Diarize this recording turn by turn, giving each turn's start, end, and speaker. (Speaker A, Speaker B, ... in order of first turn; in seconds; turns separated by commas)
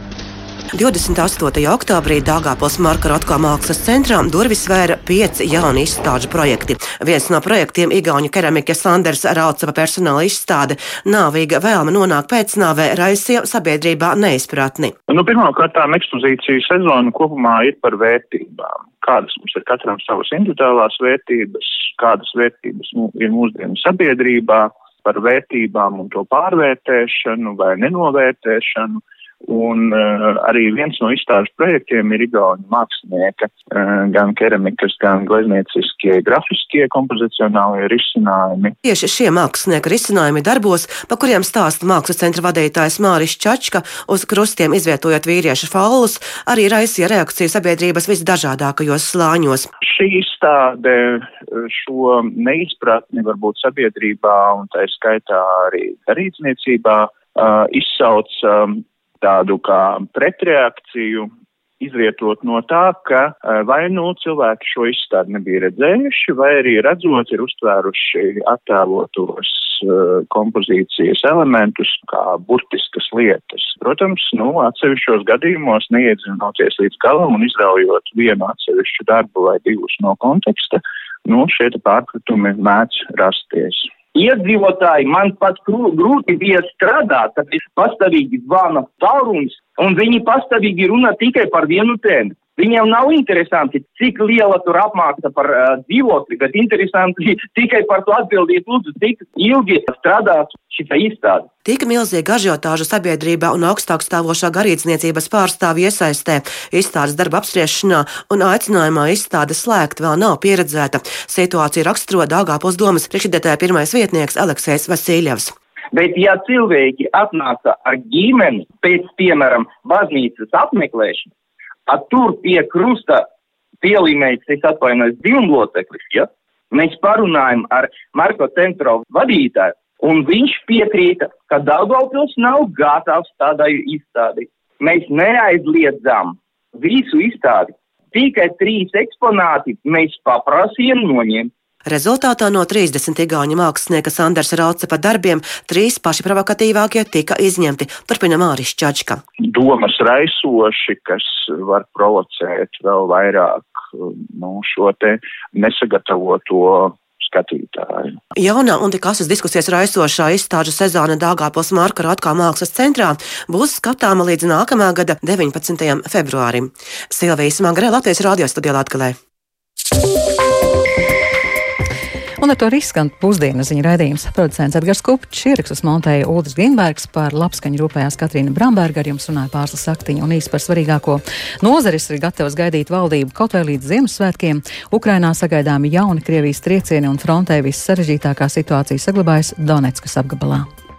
Speaker A: 0.8-14.9, Speaker B: 15.1-38.8, Speaker A: 38.9-49.7, Speaker B: 49.8-61.3, Speaker B: 61.8-83.9, Speaker C: 84.1-101.5, Speaker A: 101.7-115.5, Speaker C: 115.9-121.3, Speaker C: 121.9-123.3, Speaker C: 123.8-141.5, Speaker A: 141.9-149.2, Speaker B: 149.5-158.2, Speaker A: 158.4-169.1, Speaker D: 172.4-190.7